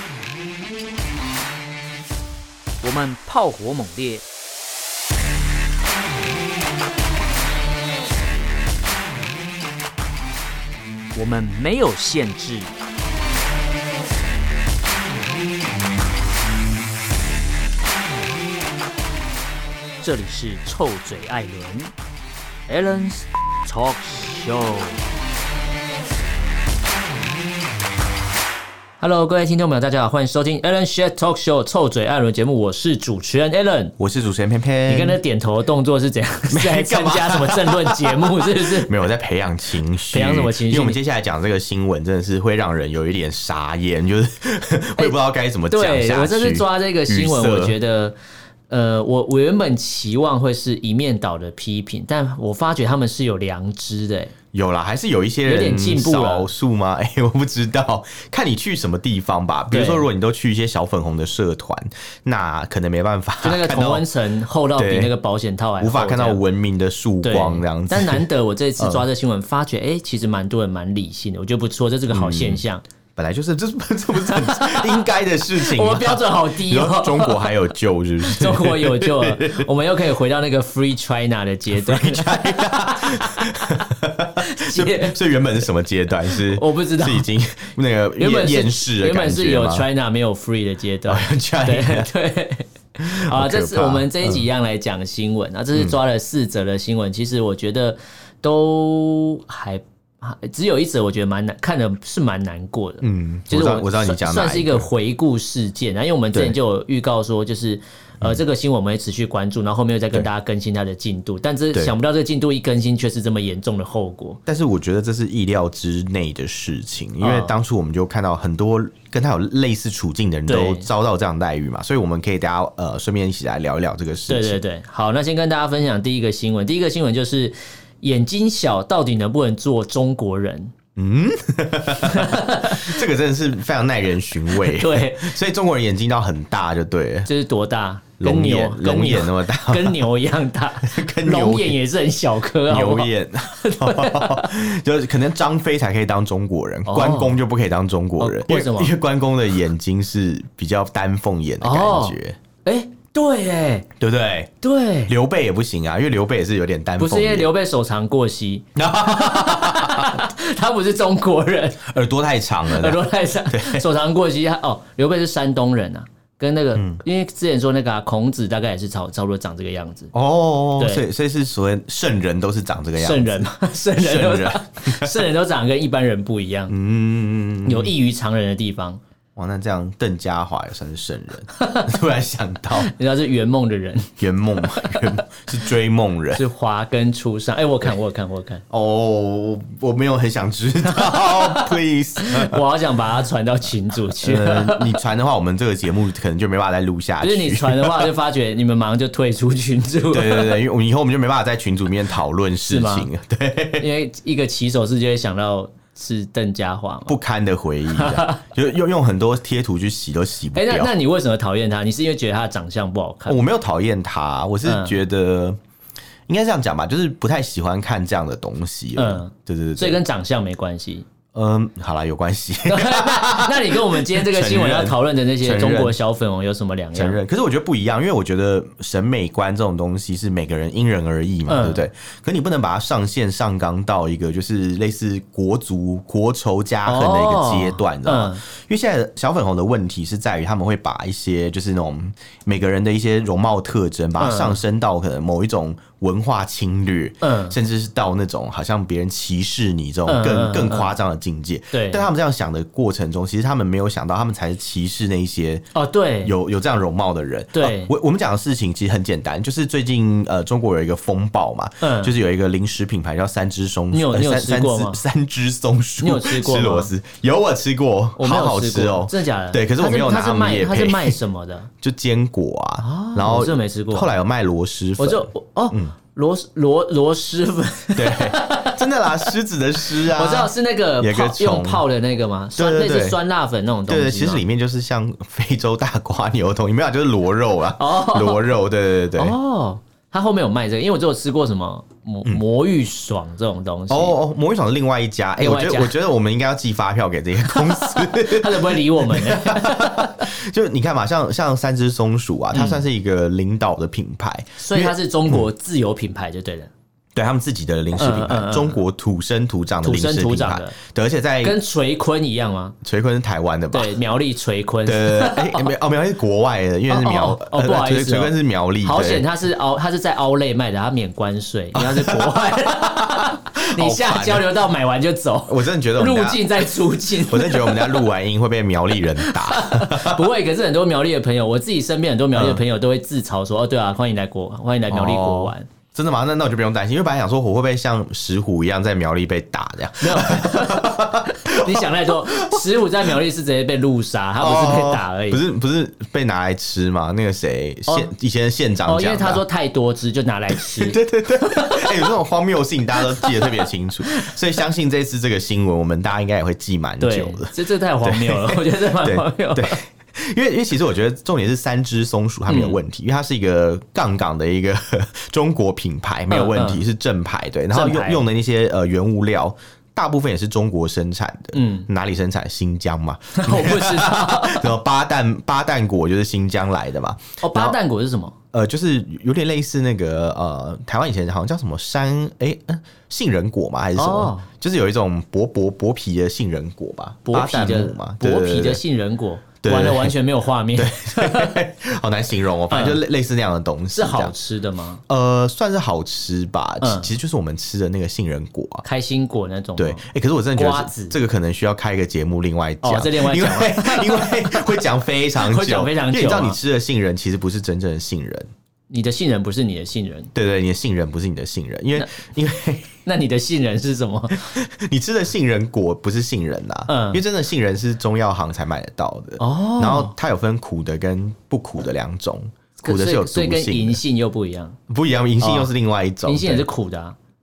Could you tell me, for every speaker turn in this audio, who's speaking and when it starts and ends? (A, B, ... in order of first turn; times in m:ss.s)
0:02.8-0:04.2 A
0:11.1-0:12.7 A
0:20.0-0:21.9 A
0:22.7-0:25.0 A
0:29.0-0:33.9 A
0:34.0-0:35.2 B
0:34.9-0:38.9 A
0:36.5-0:47.8 B
0:40.1-0:41.0 A
0:45.7-0:48.2 A
0:48.7-0:54.3 A
0:54.5-1:04.1 B
0:55.5-0:56.5 A
0:59.7-1:00.1 A
1:03.4-1:06.4 A
1:04.8-1:05.1 B
1:05.8-1:08.2 B
1:07.2-1:12.8 A
1:08.8-1:09.1 B
1:12.1-1:12.6 B
1:13.2-1:19.7 B
1:14.3-1:17.5 A
1:18.2-1:23.8 A
1:21.7-1:29.9 B
1:24.4-1:25.2 A
1:26.3-1:27.3 A
1:28.2-1:54.4 A
1:31.1-1:32.1 B
1:33.0-1:34.5 B
1:43.0-1:44.9 B
1:54.5-2:04.6 B
1:57.2-1:57.5 A
2:00.5-2:00.9 A
2:04.3-2:10.7 A
2:11.0-2:17.3 B
2:12.0-2:13.0 A
2:14.5-2:15.3 A
2:17.3-2:24.6 A
2:18.2-2:20.0 B
2:20.8-2:21.8 B
2:22.7-2:32.4 B
2:26.9-2:27.4 A
2:28.2-2:28.9 A
2:31.6-2:33.9 A
2:34.0-2:34.5 B
2:34.6-2:35.1 A
2:35.1-2:37.5 B
2:37.0-2:41.9 A
2:38.8-2:40.3 B
2:41.8-2:43.8 B
2:42.7-2:50.1 A
2:46.8-2:47.0 B
2:50.1-2:55.2 B
2:50.8-2:51.0 A
2:53.0-2:56.7 A
2:56.7-2:57.9 B
2:57.6-2:59.0 A
2:59.4-3:02.9 B
3:01.6-3:01.9 A
3:02.8-3:05.2 A
3:04.2-3:06.4 B
3:06.3-3:08.6 A
3:08.7-3:12.6 B
3:10.9-3:15.0 A
3:14.2-3:18.1 B
3:17.2-3:20.6 A
3:20.1-3:23.9 B
3:22.7-3:23.1 A
3:23.8-3:27.2 A
3:27.1-3:30.9 B
3:27.9-3:28.4 A
3:30.6-3:33.4 A
3:33.3-3:35.6 B
3:34.6-3:35.0 A
3:36.3-3:40.0 B
3:39.0-3:41.1 A
3:41.3-3:46.0 B
3:42.6-3:47.2 A
3:47.0-4:15.7 B
3:51.5-3:51.9 A
3:56.8-3:58.4 A
4:04.2-4:04.6 A
4:07.2-4:07.6 A
4:10.1-4:10.9 A
4:11.7-4:12.1 A
4:15.7-4:16.3 A
4:16.2-4:31.2 B
4:17.5-4:17.9 A
4:21.8-4:22.2 A
4:23.9-4:25.0 A
4:26.0-4:26.9 A
4:28.2-4:31.7 A
4:31.8-4:35.9 B
4:32.8-4:34.1 A
4:35.0-4:39.3 A
4:38.0-4:41.8 B
4:39.8-4:44.4 A
4:42.6-4:43.2 B
4:43.9-4:49.4 B
4:47.8-4:48.5 A
4:49.2-4:54.2 A
4:53.9-5:05.4 B
4:55.4-4:56.0 A
4:57.5-5:00.3 A
5:02.5-5:02.8 A
5:04.6-5:06.7 A
5:07.2-5:11.6 B
5:08.0-5:08.8 A
5:09.8-5:10.8 A
5:11.4-5:12.8 A
5:12.8-5:14.0 B
5:13.7-5:15.7 A
5:14.9-5:19.3 B
5:16.9-5:28.1 A
5:21.8-5:24.5 B
5:25.5-5:30.2 B
5:29.2-5:35.7 A
5:32.3-5:32.6 B
5:34.9-5:42.8 B
5:40.0-5:45.4 A
5:44.4-5:49.4 B
5:48.8-5:52.1 A
5:50.5-6:17.8 B
5:53.1-5:54.3 A
5:57.0-5:59.8 A
6:02.5-6:02.8 A
6:06.3-6:06.8 A
6:07.7-6:08.2 A
6:11.5-6:11.9 A
6:13.4-6:14.7 A
6:17.4-6:18.4 A
6:18.5-6:28.8 B
6:24.0-6:24.5 A
6:27.2-6:31.6 A
6:29.6-6:30.1 B
6:30.8-6:34.3 B
6:32.7-6:33.0 A
6:33.9-6:35.0 A
6:35.1-6:38.8 B
6:36.8-6:37.1 A
6:38.8-6:41.2 A
6:39.8-6:48.5 B
6:42.8-6:44.8 A
6:45.4-6:46.6 A
6:48.9-6:50.3 A
6:50.3-6:53.0 B
6:53.1-6:54.5 A
6:54.3-7:04.0 B
6:56.9-6:57.2 A
6:59.4-7:00.1 A
7:02.8-7:04.8 A
7:04.9-7:06.7 B
7:05.4-7:05.7 A
7:06.2-7:07.2 A